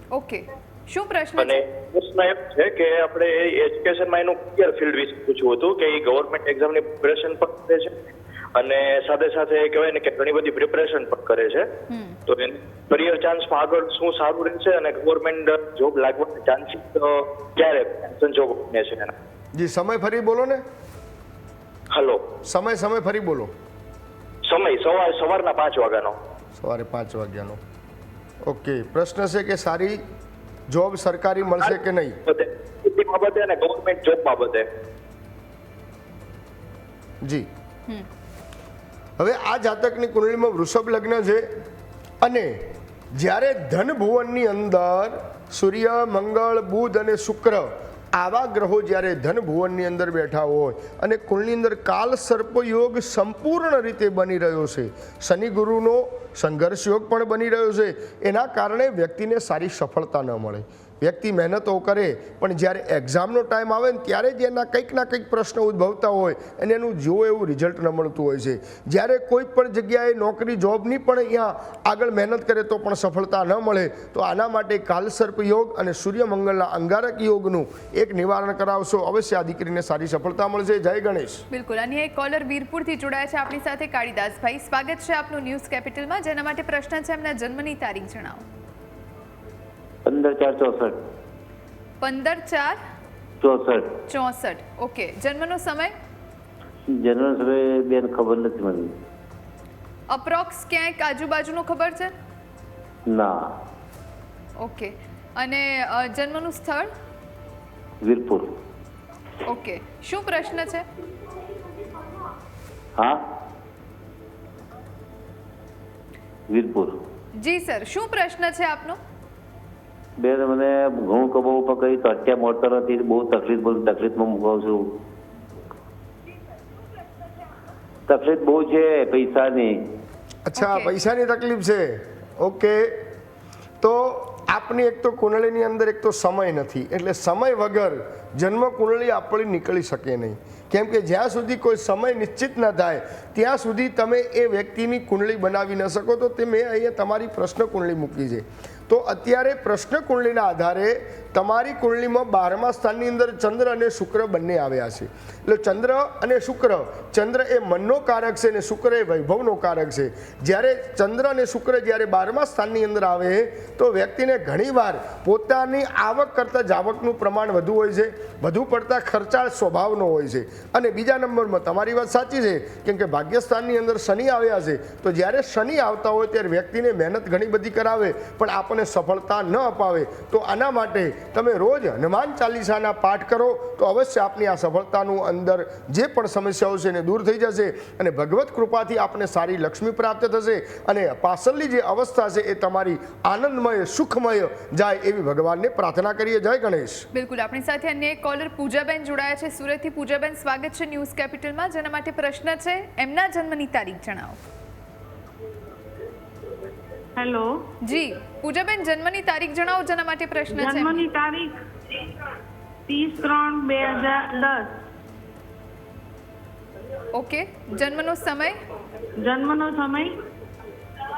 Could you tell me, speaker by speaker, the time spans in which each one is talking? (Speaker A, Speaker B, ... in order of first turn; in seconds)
Speaker A: 0.1-1.6, 11.9-12.2, 81.5-88.4, 92.0-92.8, 94.1-95.9, 100.1-102.1, 104.6-106.9, 109.5-110.9, 117.4-119.0, 130.6-130.9, 197.1-204.4, 207.8-211.1, 217.1-218.6
Speaker B: 1.4-11.7, 12.3-19.1, 21.9-22.2, 24.4-26.2, 31.6-34.7
Speaker C: 19.5-20.6, 22.4-23.5, 26.6-27.6, 28.4-30.0, 30.7-32.2, 37.2-37.5, 39.2-41.5, 42.2-81.5, 130.5-133.1, 133.8-197.1
Speaker D: 90.1-91.0, 93.4-93.9, 97.0-98.9, 103.1-103.5, 108.0-108.5, 113.0-113.2, 116.5-117.0, 120.2-125.0, 128.1-129.8
Speaker E: 207.2-207.6, 210.5-211.5, 212.9-214.8, 219.2-220.1